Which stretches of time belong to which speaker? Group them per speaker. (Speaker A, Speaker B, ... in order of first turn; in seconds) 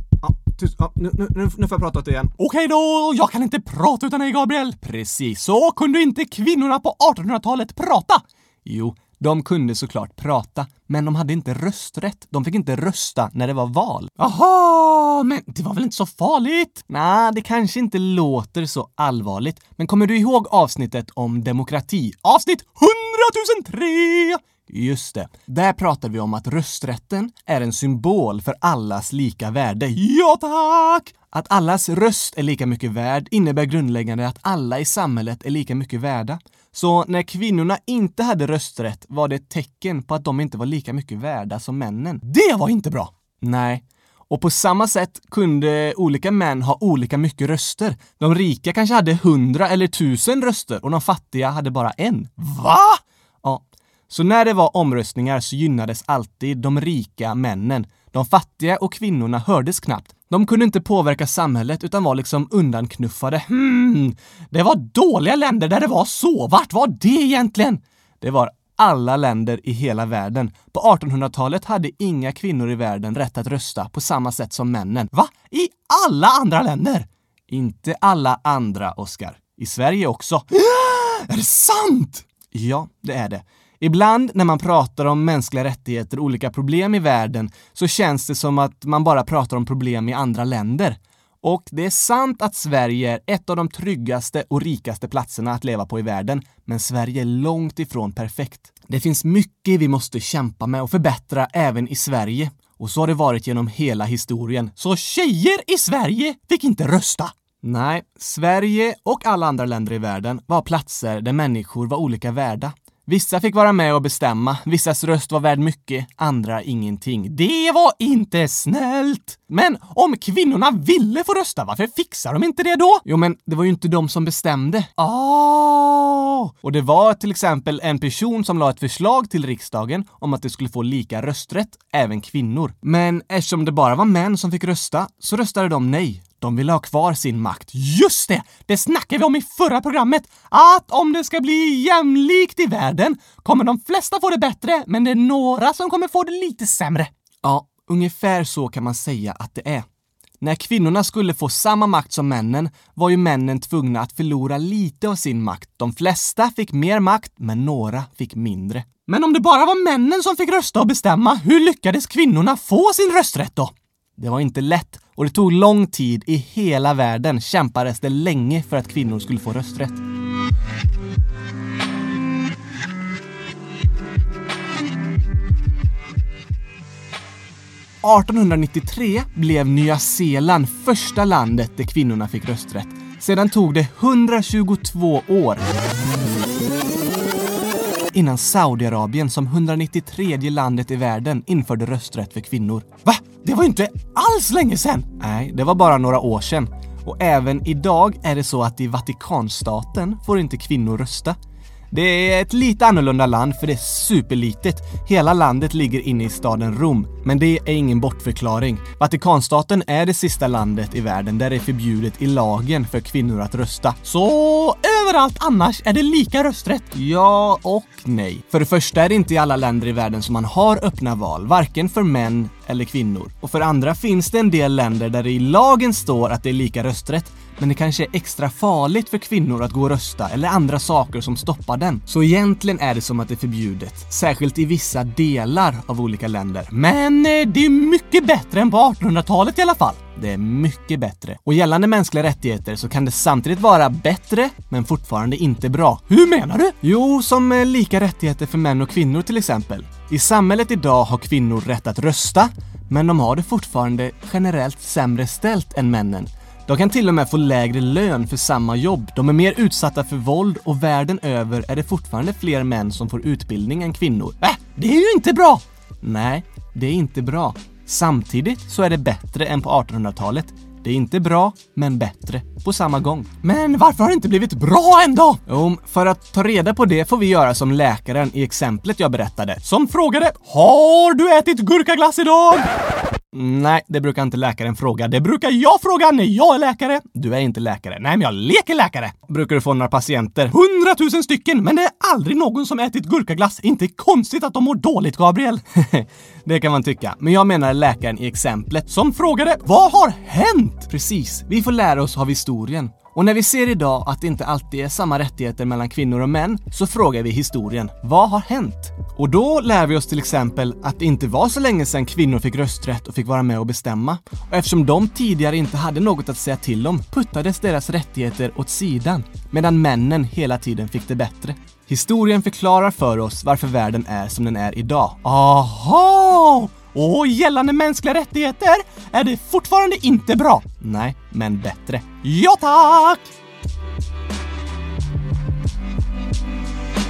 Speaker A: 0.2-149.9, 150.4-170.0, 178.0-185.7, 188.1-201.3, 201.9-282.7, 283.3-333.3